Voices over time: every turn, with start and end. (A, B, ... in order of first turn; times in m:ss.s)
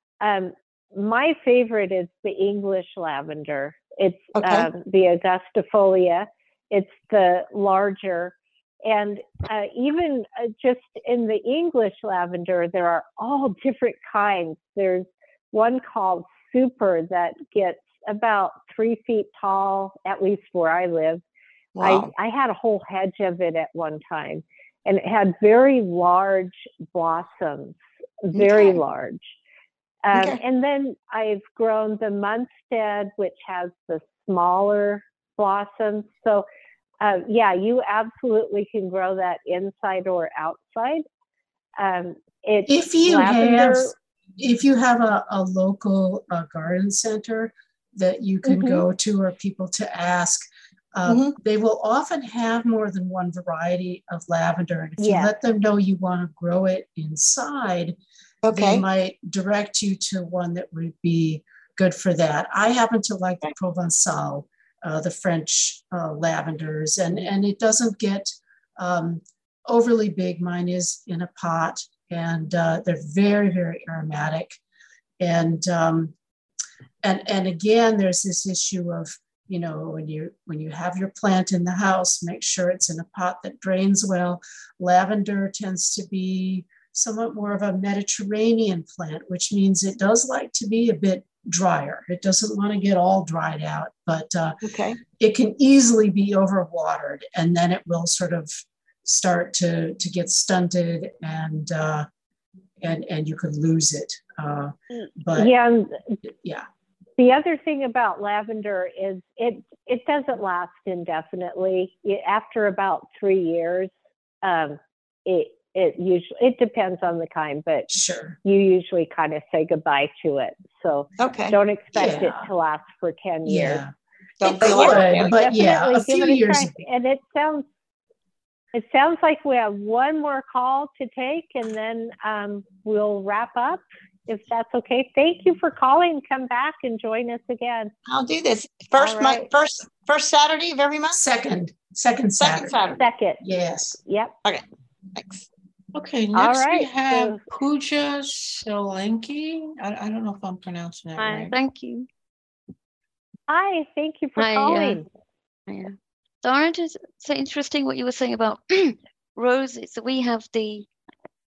0:00.2-0:21.2 A
0:04.3-0:04.7 B
0:21.7-0:22.1 B
0:21.8-0:29.4 A
0:28.3-0:28.8 B
0:30.0-0:36.4 A
0:30.1-0:30.4 B
0:37.0-0:41.0 A
0:41.8-0:43.9 A
0:42.7-0:58.0 C
0:48.4-0:48.8 A
0:51.1-0:51.3 B
0:55.0-0:55.3 A
0:58.4-0:58.8 B
0:58.5-1:14.6 C
1:15.2-1:16.1 C
1:17.0-1:42.1 C
1:34.6-1:35.0 B
1:42.8-1:45.5 C
1:45.3-1:46.0 A
1:46.2-1:46.6 C
1:47.2-1:53.9 A
1:54.4-1:57.9 A
1:57.9-1:58.4 C
1:58.4-2:03.8 A
2:01.2-2:01.6 B
2:01.9-2:02.5 C
2:03.4-2:06.8 C
2:04.4-2:05.3 B
2:04.6-2:07.7 A
2:08.7-2:17.9 A
2:18.1-2:21.2 B
2:19.0-2:19.5 A
2:21.1-2:24.0 C
2:22.4-2:23.0 B
2:23.0-2:23.4 A
2:24.0-2:24.3 A
2:24.4-2:25.4 B
2:25.9-2:31.6 D
2:26.3-2:27.4 A
2:31.2-2:32.1 E
2:33.5-2:35.0 A
2:34.4-2:35.0 E
2:35.7-2:40.9 E